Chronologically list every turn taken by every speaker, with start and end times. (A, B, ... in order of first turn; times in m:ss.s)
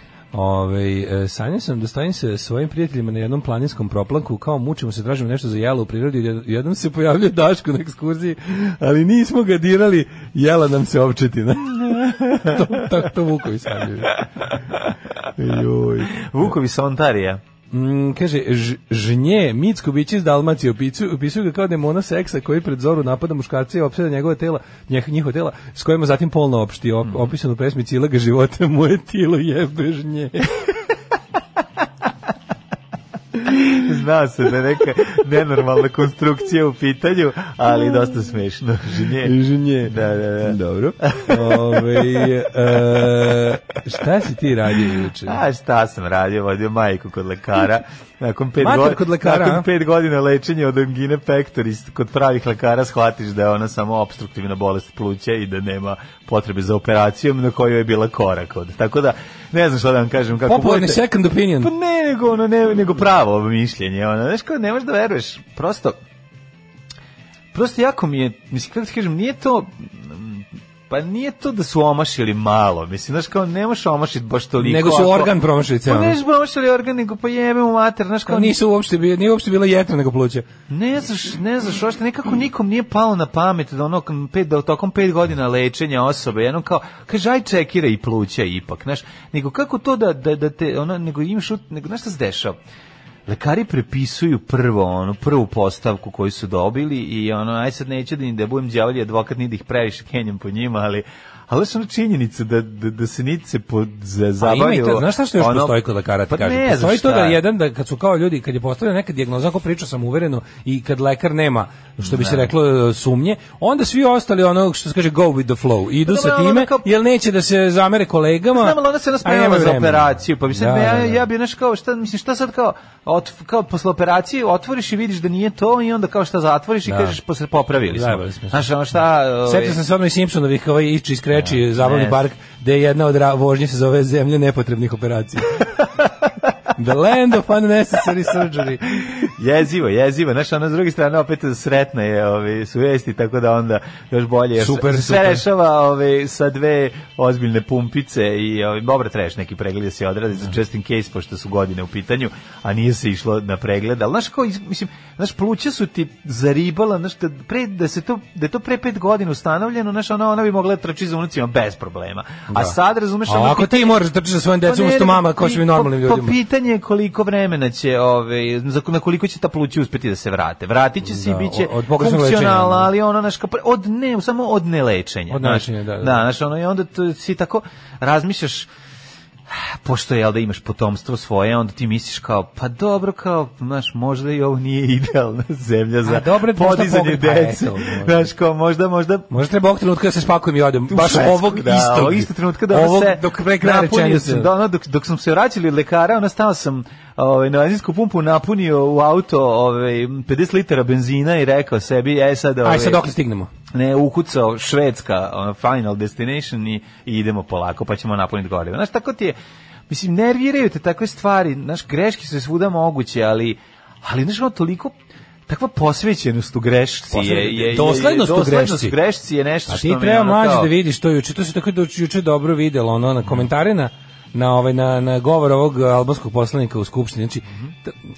0:00.3-0:14.2 A
0:11.9-0:12.8 B
0:15.4-0:16.5 A
0:16.1-0:17.4 B
0:17.7-0:30.6 A
0:33.5-0:42.2 B
0:39.2-0:45.4 A
0:45.2-1:01.0 B
0:48.6-0:49.7 A
1:00.4-1:01.7 A
1:01.6-1:06.0 B
1:07.5-1:15.3 B
1:14.6-1:16.2 A
1:15.8-1:18.5 B
1:18.3-1:20.5 A
1:20.7-1:32.6 B
1:33.3-1:47.4 B
1:44.4-2:01.2 A
1:52.0-1:52.5 B
1:56.0-1:56.9 B
1:58.5-2:09.8 B
2:06.8-2:07.2 A
2:07.9-2:08.7 A
2:09.4-2:15.8 A
2:11.3-2:12.2 B
2:16.7-2:19.1 A
2:19.1-2:44.0 B
2:24.6-2:25.4 A
2:42.5-2:46.4 A
2:44.6-2:58.7 B
2:51.0-2:52.9 A
2:55.3-2:56.2 A
2:59.5-3:09.3 B
3:06.0-3:08.3 A
3:09.3-3:14.5 A
3:10.9-3:23.0 B
3:22.6-3:23.5 A
3:23.7-3:29.4 B
3:29.9-3:34.9 B
3:35.5-3:40.7 B
3:37.1-3:39.0 A
3:39.7-3:47.9 A